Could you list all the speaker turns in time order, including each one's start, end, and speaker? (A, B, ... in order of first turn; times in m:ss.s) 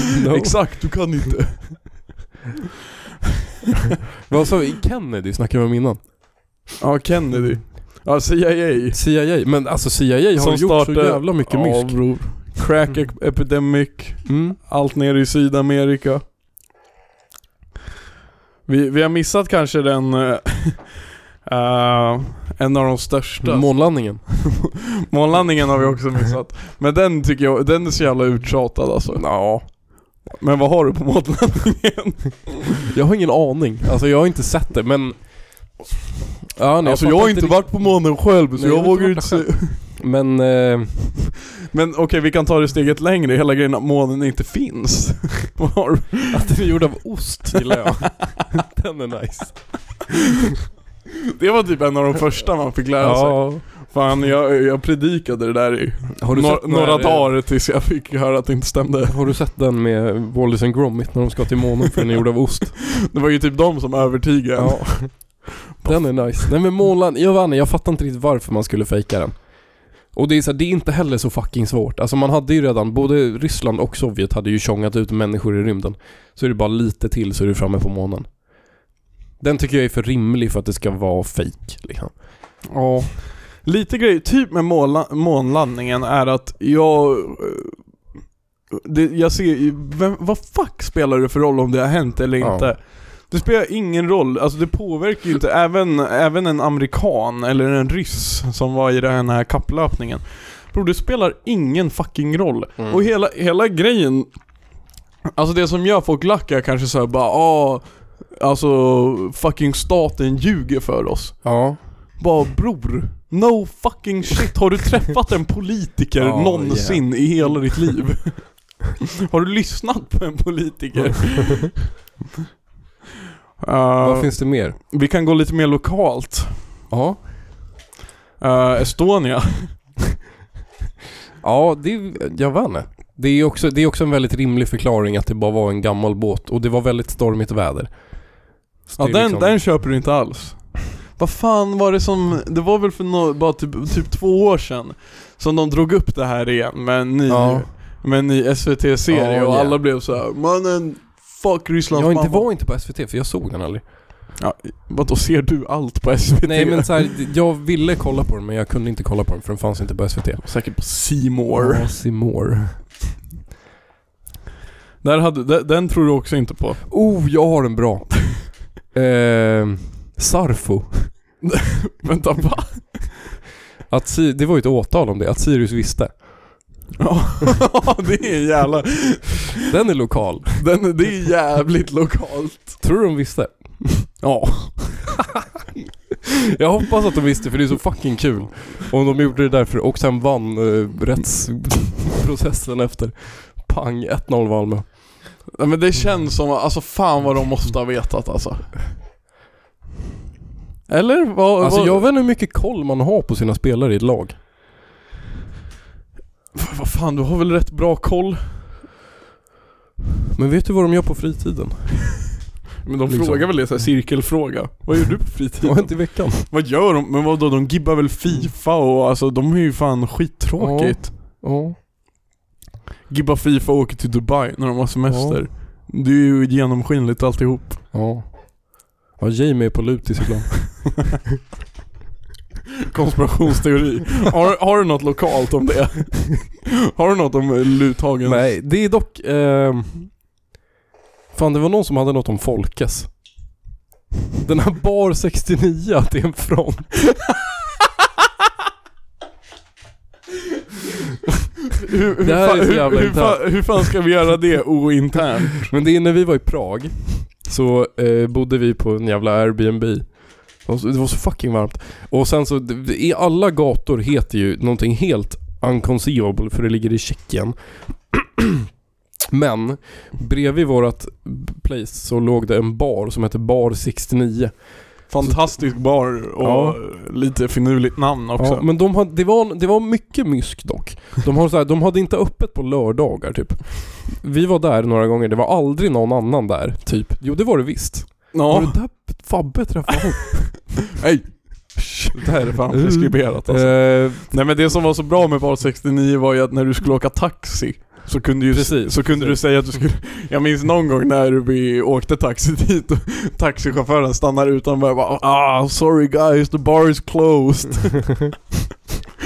0:00.1-0:01.1 A
0:00.2-0:02.2 B
0:04.3-0:06.1 A
0:06.8-0:09.0 B
0:08.9-0:12.5 A
0:10.4-0:16.2 B
0:14.2-0:14.6 A
0:18.6-0:24.3 B
0:23.4-0:24.2 A
0:25.1-0:29.8 B
0:29.1-0:29.7 A
0:30.4-0:32.6 B
0:32.9-0:35.8 A
0:36.5-0:41.3 A
0:36.8-0:39.8 B
0:41.7-0:46.5 B
0:46.3-0:50.1 A
0:51.4-0:59.1 B
0:53.0-0:53.6 A
0:56.2-0:57.3 A
0:59.0-1:02.8 A
1:03.0-1:06.5 B
1:04.6-1:18.3 A
1:19.4-1:22.2 A
1:22.7-1:27.9 B
1:28.7-1:44.6 B
1:32.4-1:32.7 A
1:42.8-1:43.0 A
1:45.4-2:01.9 B
1:51.4-1:51.8 A
1:56.2-1:57.8 A
2:03.6-2:06.7 B
2:04.0-2:04.8 A
2:06.9-2:07.2 A
2:08.4-2:10.0 B
2:11.4-2:19.6 A
2:19.0-2:32.5 B
2:27.3-2:27.7 A
2:29.1-2:29.8 A
2:31.9-2:33.9 A
2:34.4-2:37.1 B
2:36.4-2:40.5 A
2:40.4-2:41.9 B
2:41.5-2:42.8 A
2:45.0-2:46.8 B
2:46.9-2:51.1 A
2:51.4-2:53.2 B
2:53.9-2:56.5 A
2:57.0-2:59.5 B
2:59.7-3:00.6 A
3:00.6-3:02.8 B
3:02.8-3:04.1 A
3:04.2-3:05.2 B
3:06.5-3:15.2 A
3:15.5-3:18.8 B
3:20.9-3:22.1 B
3:21.6-3:24.4 A
3:26.5-3:28.6 B
3:30.3-3:32.5 A
3:32.8-3:41.1 B
3:33.1-3:33.8 A
3:35.6-3:36.5 A
3:40.6-3:41.8 A
3:43.1-3:47.9 B
3:45.1-3:45.4 A
3:47.9-3:51.2 A
3:52.9-3:58.4 B
3:58.2-4:00.2 A
4:01.3-4:03.4 A
4:04.4-4:07.1 A
4:11.8-4:15.7 B
4:12.2-4:13.9 A
4:15.6-4:28.6 A
4:29.3-4:35.7 A
4:35.1-4:38.6 B
4:36.4-4:36.8 A
4:38.4-4:50.8 A
4:48.3-4:49.2 B
4:51.0-5:08.4 B
4:52.7-4:54.2 A
4:58.5-4:59.8 A